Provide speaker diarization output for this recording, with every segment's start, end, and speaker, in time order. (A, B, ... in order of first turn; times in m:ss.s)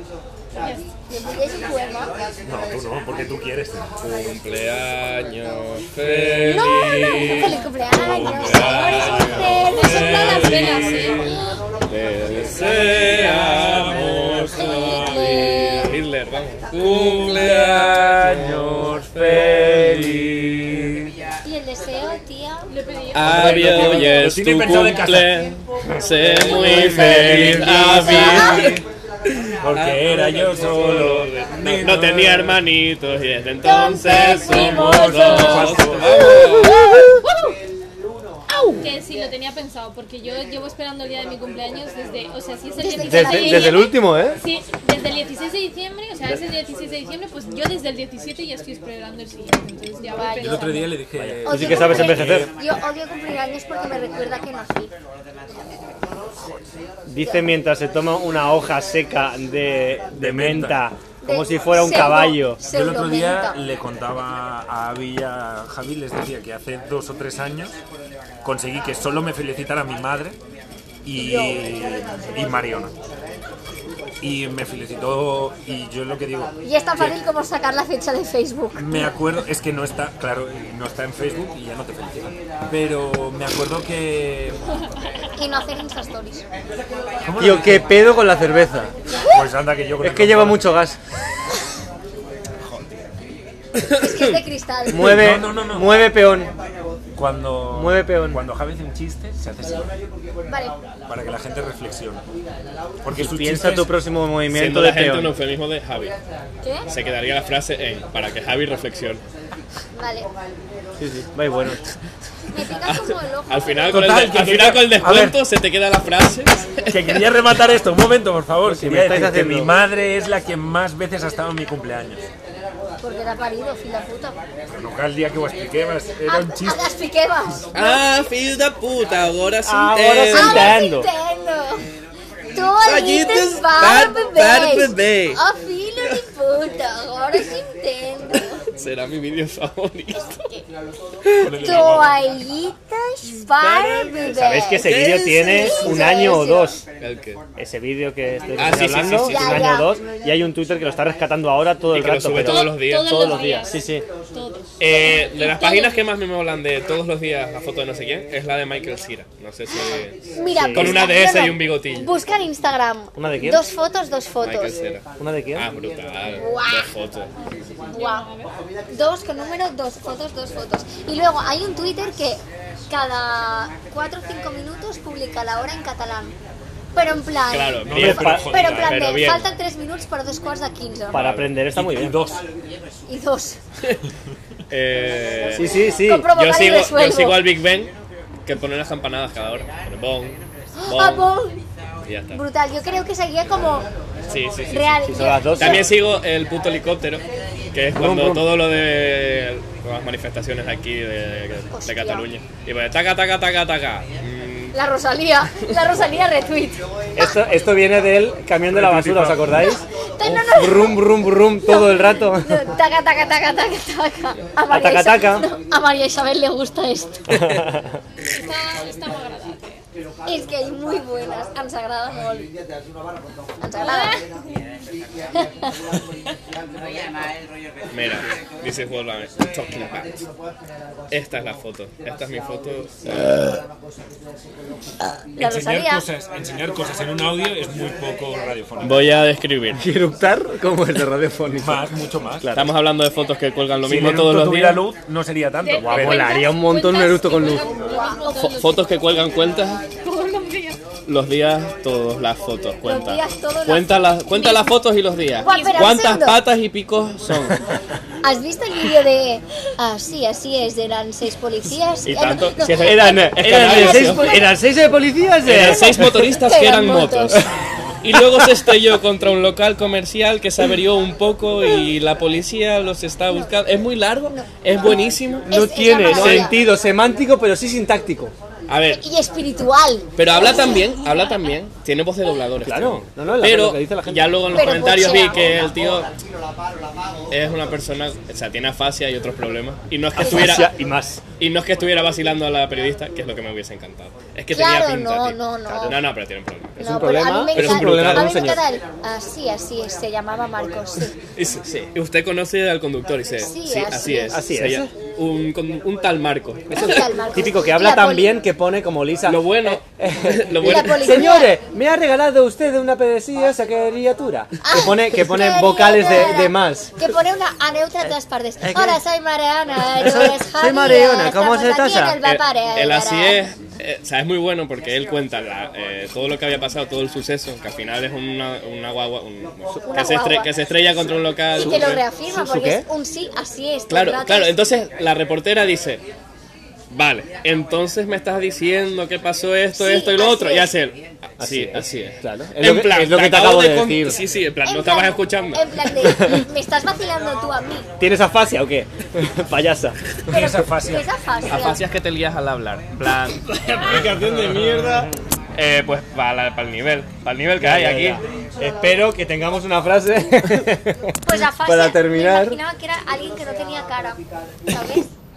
0:00.5-0:00.8 A
0:01.1-0:02.1 B
0:02.4-0:03.9 C
0:04.0-0:07.1 D
0:06.0-0:11.3 C
0:06.4-0:11.6 B
0:07.2-0:07.8 A
0:08.0-0:11.2 D
0:09.7-0:11.4 A
0:11.9-0:20.3 D
0:12.4-0:15.7 C
0:14.6-0:15.9 B
0:16.7-0:21.0 C
0:21.4-0:22.7 B
0:22.7-0:23.5 A
0:23.1-0:28.8 D
0:23.2-0:28.8 C
0:26.4-0:28.8 B
0:27.0-0:27.6 E
0:29.6-0:32.6 C
0:29.6-0:37.0 D
0:33.6-0:37.1 B
0:34.2-0:36.3 C
0:38.8-0:51.0 A
0:42.8-0:43.9 B
0:43.0-0:44.4 E
0:50.1-0:50.7 B
0:50.4-0:52.5 C
0:51.2-0:52.5 E
0:51.4-0:54.9 B
0:57.0-1:02.6 E
0:57.2-0:57.5 B
1:00.1-1:00.8 C
1:01.2-1:03.6 B
1:02.6-1:07.8 C
1:08.4-1:10.4 C
1:11.0-1:12.9 C
1:11.2-1:11.6 B
1:14.2-1:17.2 C
1:16.6-1:19.1 B
1:18.7-1:24.6 C
1:25.3-1:26.4 B
1:27.2-1:28.0 C
1:27.4-1:28.9 E
1:29.3-1:30.8 C
1:30.0-1:31.0 E
1:32.6-1:33.0 C
1:33.8-1:34.3 D
1:34.0-1:35.3 B
1:34.9-1:36.5 E
1:35.0-1:35.9 C
1:37.1-1:39.9 C
1:37.7-1:38.4 E
1:40.4-1:40.7 B
1:41.1-1:42.2 C
1:43.0-1:43.9 C
1:43.1-1:45.3 E
1:44.5-1:46.2 D
1:46.6-1:46.9 B
1:46.9-1:49.2 D
1:49.9-1:50.3 B
1:51.0-1:51.8 E
1:52.5-1:54.0 B
1:52.8-1:57.2 D
1:53.9-1:55.4 C
1:56.9-2:02.3 C
1:58.6-1:59.7 E
2:03.0-2:04.4 B
2:04.7-2:06.8 C
2:06.2-2:08.0 B
2:07.7-2:10.8 D
2:09.6-2:11.1 E
2:10.3-2:11.8 B
2:12.5-2:18.6 B
2:12.8-2:15.4 D
2:18.8-2:20.5 D
2:21.3-2:21.8 D
2:21.4-2:22.2 C
2:21.5-2:26.8 B
2:23.4-2:25.7 D
2:24.3-2:26.8 E
2:27.0-2:27.4 D
2:27.6-2:34.0 E
2:28.6-2:29.8 D
2:29.2-2:30.0 B
2:31.9-2:33.3 D
2:32.4-2:35.9 A
2:34.8-2:40.2 D
2:40.3-2:44.8 B
2:40.5-2:41.0 E
2:40.7-2:42.1 D
2:43.1-2:43.6 E
2:44.4-2:45.0 D
2:45.2-2:45.7 E
2:45.5-2:47.3 D
2:46.3-2:46.9 B
2:47.4-2:48.5 A
2:47.9-2:48.3 B
2:48.9-2:56.4 B
2:56.9-3:01.2 B
2:57.5-2:59.5 D
2:57.8-2:59.0 C
2:57.9-2:58.5 E
3:01.1-3:02.2 E
3:01.1-3:01.5 D
3:01.7-3:02.4 C
3:03.1-3:03.6 B
3:04.7-3:05.7 D
3:05.5-3:06.3 E
3:05.8-3:07.4 B
3:06.3-3:07.9 D
3:08.4-3:11.3 D
3:10.8-3:11.6 B
3:12.0-3:12.4 D
3:12.3-3:13.9 B
3:13.6-3:15.0 D
3:14.7-3:15.8 B
3:15.0-3:15.9 E
3:15.6-3:17.2 D
3:17.7-3:24.7 D
3:17.9-3:18.5 E
3:21.7-3:22.2 B
3:24.7-3:27.4 B
3:27.2-3:32.7 E
3:28.7-3:29.7 C
3:29.6-3:31.0 B
3:31.6-3:37.2 B
3:34.7-3:35.5 E
3:37.3-3:37.9 E
3:38.3-3:39.8 A
3:40.2-3:42.5 B
3:43.6-3:44.2 B
3:43.8-3:44.6 A
3:45.4-3:45.7 B
3:47.9-3:50.2 D
3:51.1-3:53.5 D
3:55.4-3:56.1 B
3:55.4-3:59.1 C
3:58.8-3:59.8 D
3:59.7-4:02.7 E
4:01.5-4:02.5 C
4:02.5-4:04.8 D
4:03.8-4:06.4 C
4:05.6-4:08.9 A
4:05.8-4:07.7 E
4:07.8-4:08.6 B
4:08.4-4:09.8 D
4:10.0-4:10.8 A
4:10.0-4:10.8 B
4:11.0-4:17.6 D
4:12.8-4:14.7 B
4:15.4-4:16.4 B
4:15.4-4:16.0 A
4:18.2-4:24.2 B
4:22.0-4:24.5 D
4:22.8-4:26.3 E
4:25.4-4:27.5 D
4:25.6-4:27.4 B
4:28.0-4:36.5 D
4:28.1-4:28.7 E
4:35.4-4:36.6 B
4:35.4-4:38.3 E
4:38.7-4:39.0 D
4:38.9-4:40.9 B
4:40.2-4:46.1 D
4:42.6-4:44.4 E
4:44.5-4:45.5 B
4:47.3-4:50.7 D
4:50.2-4:51.2 E
4:50.2-4:50.6 B
4:51.4-4:56.8 D
4:54.5-4:56.0 B
4:56.8-4:58.6 E
4:56.8-5:01.1 B
4:57.5-4:58.5 D
5:01.3-5:07.1 D
5:03.4-5:04.4 B
5:04.3-5:04.9 E
5:06.7-5:16.9 E
5:06.7-5:08.4 B
5:09.2-5:11.3 D
5:10.6-5:11.6 B
5:14.6-5:23.5 B
5:18.6-5:19.0 E
5:19.9-5:22.2 E
5:22.2-5:32.0 D
5:29.9-5:30.5 B
5:31.6-5:34.5 B
5:31.6-5:32.8 E
5:33.9-5:36.0 D
5:36.9-5:46.2 D
5:39.7-5:40.7 B
5:41.4-5:44.2 E
5:44.6-5:47.9 B
5:48.0-5:50.0 E
5:50.3-5:51.1 C
5:50.4-5:51.8 B
5:51.5-5:54.1 D
5:53.6-5:55.1 E
5:55.5-5:58.2 D
5:57.6-6:02.6 E
6:01.2-6:05.1 B